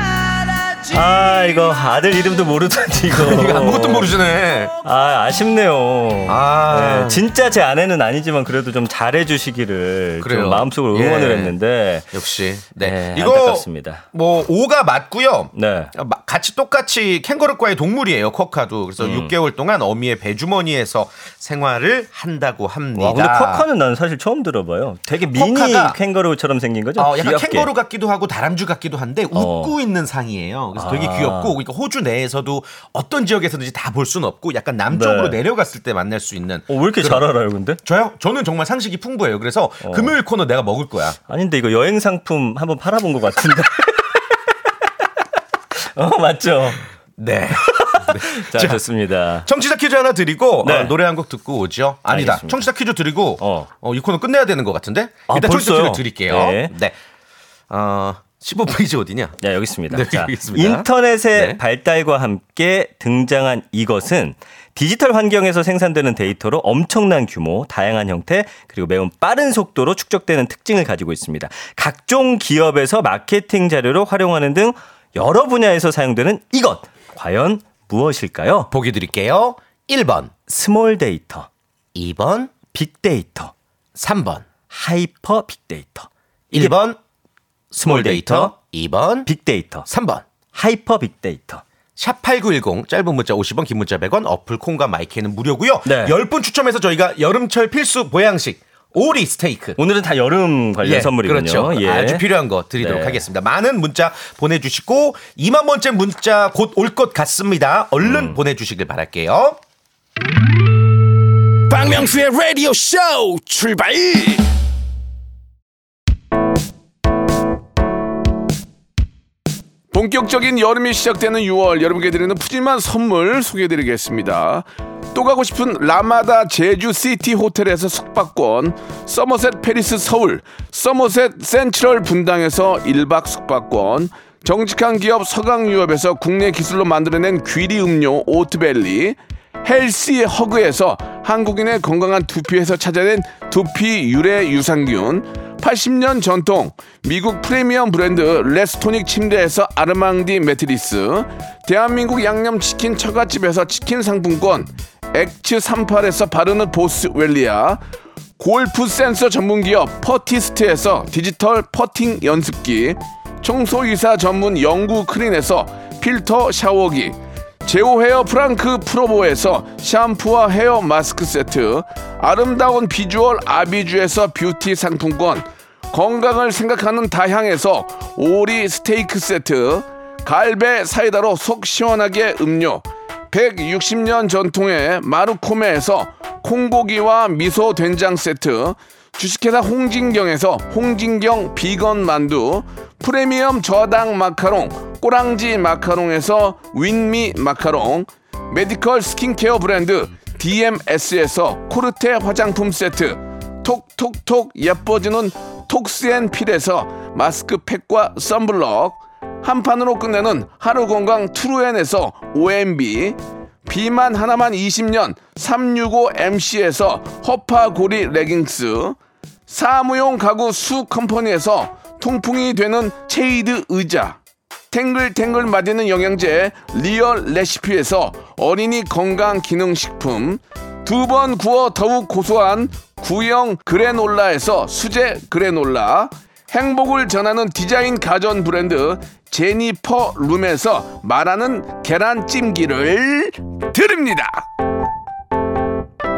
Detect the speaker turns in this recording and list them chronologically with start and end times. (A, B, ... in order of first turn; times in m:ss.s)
0:00.9-0:04.1 A
0:03.1-0:04.7 B
0:04.8-0:12.1 A
0:06.3-0:07.2 B
0:10.2-0:11.5 B
0:12.1-0:23.7 B
0:12.8-0:14.0 A
0:15.6-0:15.9 A
0:19.0-0:19.4 A
0:23.0-0:27.7 A
0:25.3-0:26.0 B
0:27.0-0:37.3 B
0:29.3-0:29.8 A
0:30.8-0:31.6 A
0:34.9-0:35.4 A
0:36.7-0:37.8 A
0:37.8-0:41.2 B
0:39.8-0:40.2 A
0:41.3-0:44.2 A
0:46.0-0:46.8 A
0:47.2-0:48.8 B
0:47.6-0:49.5 A
0:49.4-0:57.0 B
0:50.6-0:50.9 A
0:52.1-0:52.7 A
0:53.4-0:53.7 A
0:55.3-0:56.7 A
0:57.7-1:01.6 B
0:59.4-1:18.7 A
1:18.7-1:20.3 B
1:20.5-1:21.5 A
1:22.0-1:22.6 B
1:22.7-1:23.5 A
1:24.0-1:24.5 B
1:24.7-1:26.7 A
1:26.5-1:27.0 B
1:27.7-1:29.3 B
1:27.8-1:28.5 A
1:29.2-1:29.9 A
1:29.9-1:30.3 B
1:30.5-1:31.6 A
1:32.0-1:39.8 B
1:35.8-1:36.2 A
1:39.8-1:42.3 A
1:40.8-1:49.6 B
1:42.8-1:43.2 A
1:48.0-1:48.4 A
1:51.7-1:54.5 C
1:59.9-2:37.8 D
2:38.4-3:39.0 D
3:39.5-3:44.2 D
3:44.7-4:04.5 D